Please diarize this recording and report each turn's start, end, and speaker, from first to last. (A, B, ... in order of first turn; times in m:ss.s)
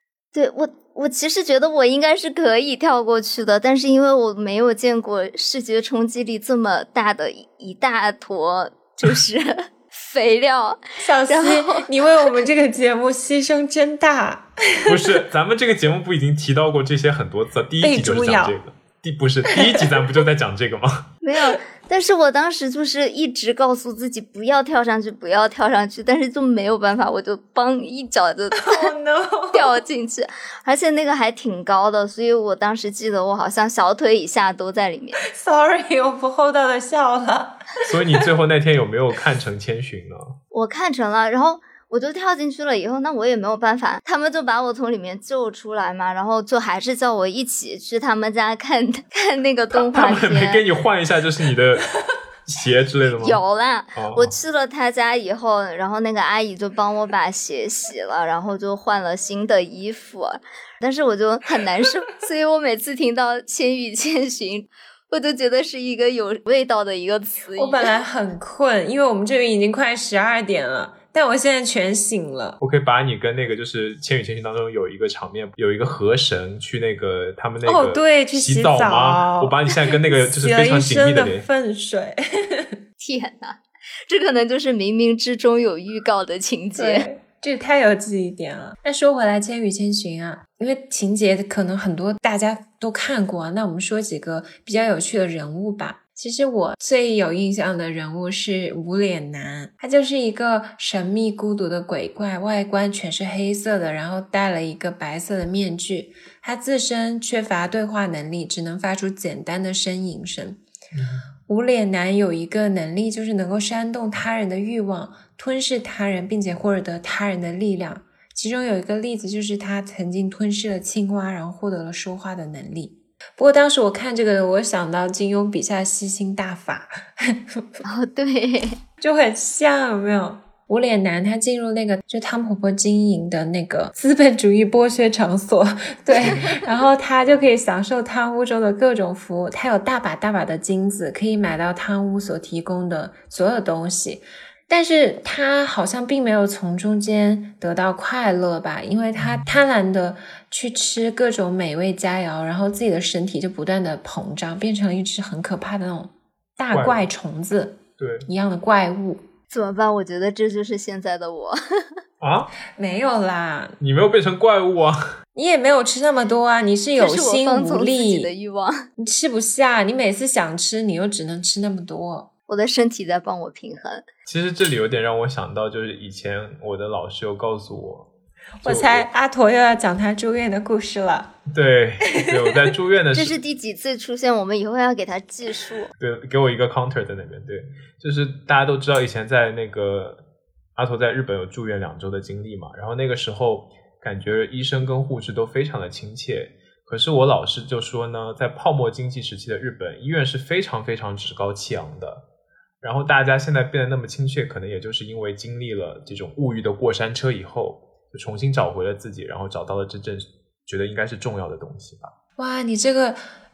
0:00.3-0:11.9 A
0:11.0-0:15.2 B
0:14.8-0:21.1 C
0:17.8-0:18.6 B
0:19.5-0:19.9 B
0:21.2-0:28.9 A
0:28.6-0:29.8 B
0:29.5-0:35.2 A
0:35.2-0:37.8 B
0:37.8-0:40.4 C
0:40.5-0:50.6 A
0:49.7-0:53.4 C
0:53.2-1:07.9 A
0:53.9-0:54.3 C
1:07.6-1:12.6 B
1:12.6-1:21.4 C
1:17.6-1:22.8 B
1:23.0-1:27.0 A
1:26.8-1:50.6 B
1:50.9-1:51.2 C
1:51.5-2:07.8 B
2:07.8-2:08.8 A
2:09.0-2:39.2 B
2:29.2-2:29.5 C
2:36.7-2:37.1 C
2:38.0-2:38.3 C
2:39.5-2:42.0 A
2:42.2-2:42.5 C
2:42.7-2:43.8 B
2:43.8-2:45.1 C
2:45.3-2:48.3 B
2:47.0-2:48.9 A
2:49.0-2:52.3 B
2:52.5-2:54.0 A
2:54.3-2:58.1 C
2:58.6-3:01.3 B
2:58.6-2:59.1 C
3:01.5-3:03.4 C
3:02.2-3:02.5 B
3:03.1-3:05.9 A
3:06.0-3:10.2 C
3:10.8-3:22.2 C
3:22.8-3:32.1 C
3:32.4-3:33.2 B